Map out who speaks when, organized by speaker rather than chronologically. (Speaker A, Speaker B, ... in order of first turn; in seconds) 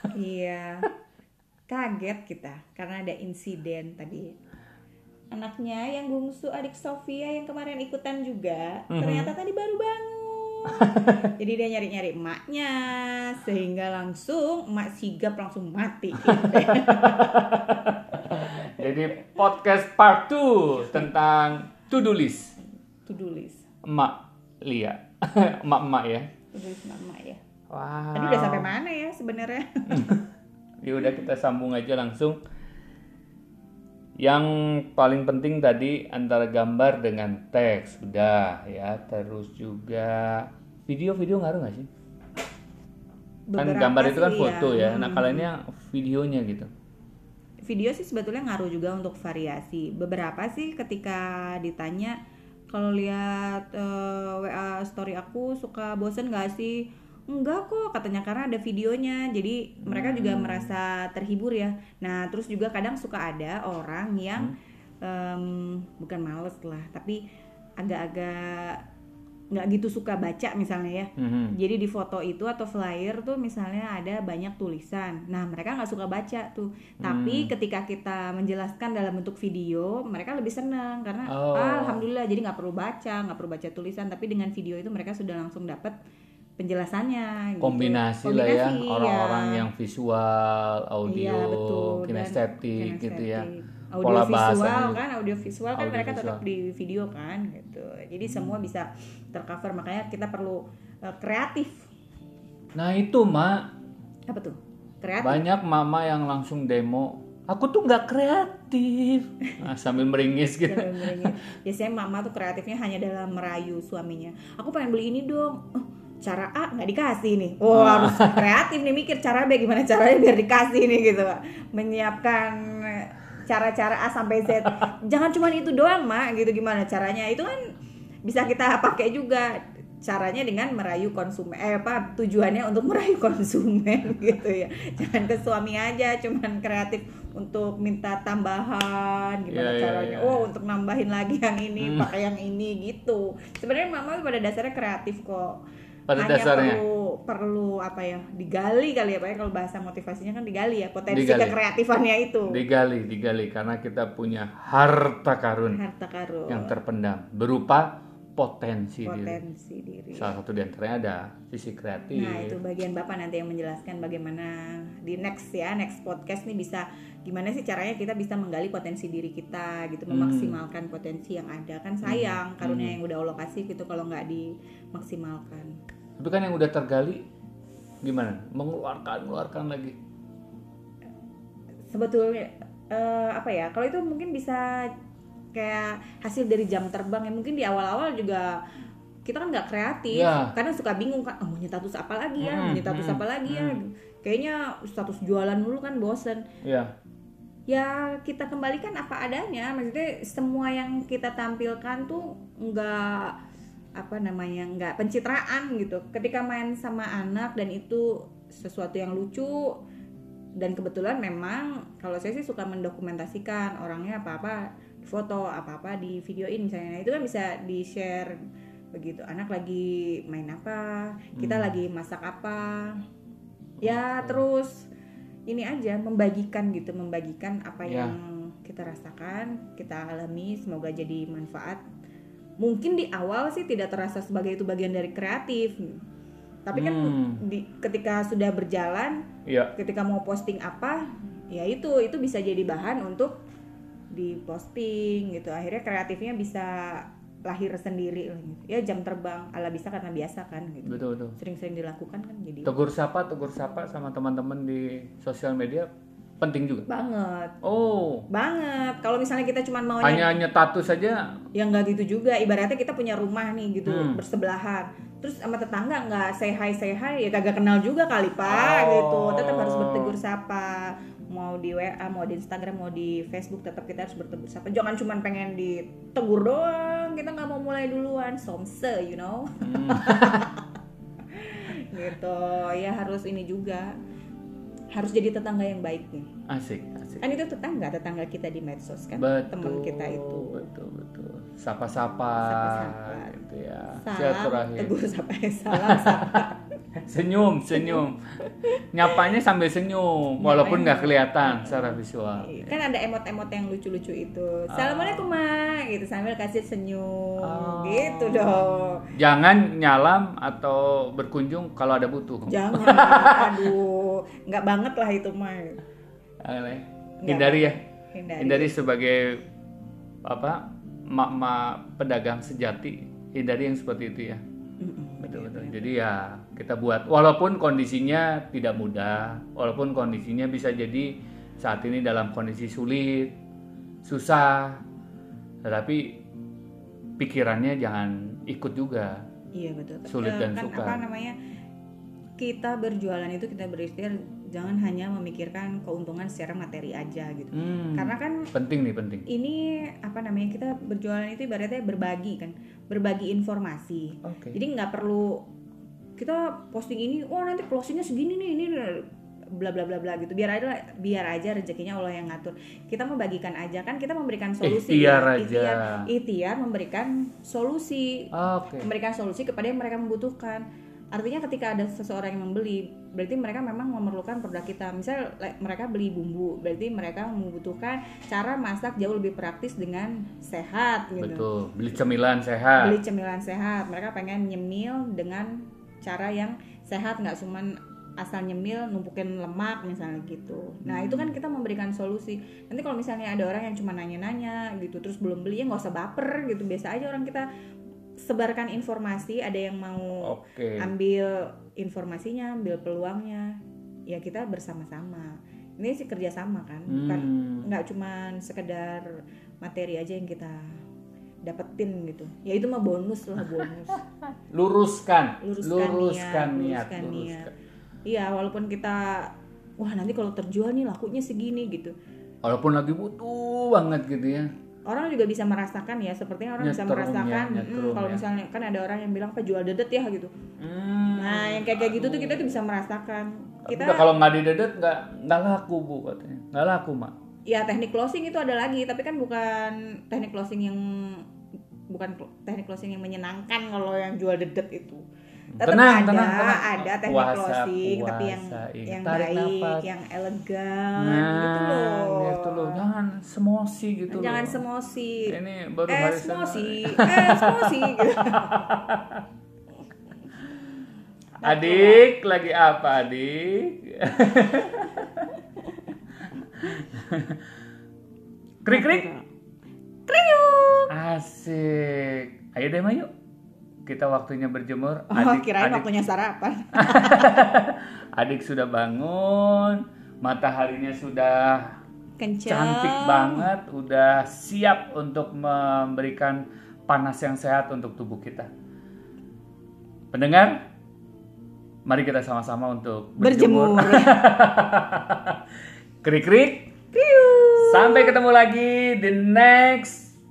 Speaker A: 0.1-0.9, 1.7-4.3, 5.3-17.3, 23.1-23.6, 26.5-27.4, 28.1-30.1, 43.5-45.5, 47.7-52.2, 52.7-67.2, 67.8-68.8, 69.5-86.0, 86.6-89.7, 91.1-101.9, 104.3-105.4, 110.7-127.6, 128.2-145.6, 146.2-152.6, 155.7-156.8, 159.1-160.3, 162.2-175.7, 181.9-184.9, 185.5-188.6, 189.2-196.5, 197.7-203.4, 204.0-209.8, 210.6-218.4, 218.9-223.0, 223.8-224.9, 225.5-231.8, 232.6-236.0, 236.7-239.2, 239.8-243.4, 244.1-252.7, 256.9-257.6, 258.3-260.3, 261.5-280.6, 281.3-283.9, 284.9-286.3, 287.2-290.6, 292.4-293.4, 294.0-296.6, 297.7-298.0, 298.5-299.2, 300.4-309.1, 312.5-315.8, 317.2-318.8, 324.8-325.9, 339.6-341.4, 342.4-348.5, 349.3-355.4, 356.2-381.5, 382.8-397.5, 398.2-410.8, 411.5-414.0, 415.4-417.5, 418.1-421.9, 424.9-430.3, 431.2-434.1, 437.5-441.2, 441.9-445.0, 445.6-452.9, 454.1-455.4, 455.9-458.7, 460.3-460.5, 461.4-462.1, 468.7-469.3, 470.1-470.9, 475.1-477.4, 482.2-483.5, 493.2-494.2, 496.9-498.2
Speaker B: 8.9-9.3, 10.8-11.2, 16.3-22.6, 23.8-26.3, 27.7-28.7, 29.9-30.3, 30.8-32.4, 34.2-41.9, 43.6-46.7, 59.9-60.7, 71.2-71.6, 77.0-77.5, 81.3-82.0, 87.6-93.5, 94.0-95.0, 95.7-96.4, 102.8-103.7, 105.2-111.3, 117.7-118.5, 139.5-140.5, 141.8-142.1, 146.1-146.8, 151.1-151.6, 152.5-155.8, 156.5-159.4, 160.2-162.6, 170.1-170.6, 172.0-173.0, 176.2-177.2, 178.0-180.0, 190.1-190.6, 192.4-193.8, 196.6-196.9, 221.4-221.7, 223.8-224.4, 227.9-228.2, 236.7-237.4, 239.5-239.7, 250.8-251.4, 252.7-256.9, 257.6-258.3, 260.0-261.4, 263.9-264.2, 268.5-270.1, 279.6-280.5, 286.5-287.3, 289.2-294.9, 295.7-298.2, 298.9-302.6, 304.7-305.3, 307.4-313.8, 316.4-317.8, 318.4-319.4, 320.3-324.4, 325.2-333.3, 334.0-334.8, 335.6-336.2, 337.2-339.2, 340.1-341.0, 347.5-349.3, 354.2-354.6, 364.6-366.1, 368.3-368.9, 381.2-383.0, 390.9-391.3, 400.2-400.9, 406.9-407.7, 414.4-417.5, 422.4-424.5, 426.6-428.2, 430.6-432.6, 433.7-437.1, 445.5-449.9, 451.0-454.6, 455.3-459.2, 461.4-465.3, 466.6-467.4, 468.6-469.1, 470.9-473.1, 473.9-475.9, 476.8-481.8, 482.4-488.5, 490.1-490.6, 491.9-495.4, 496.0-496.7, 497.6-500.1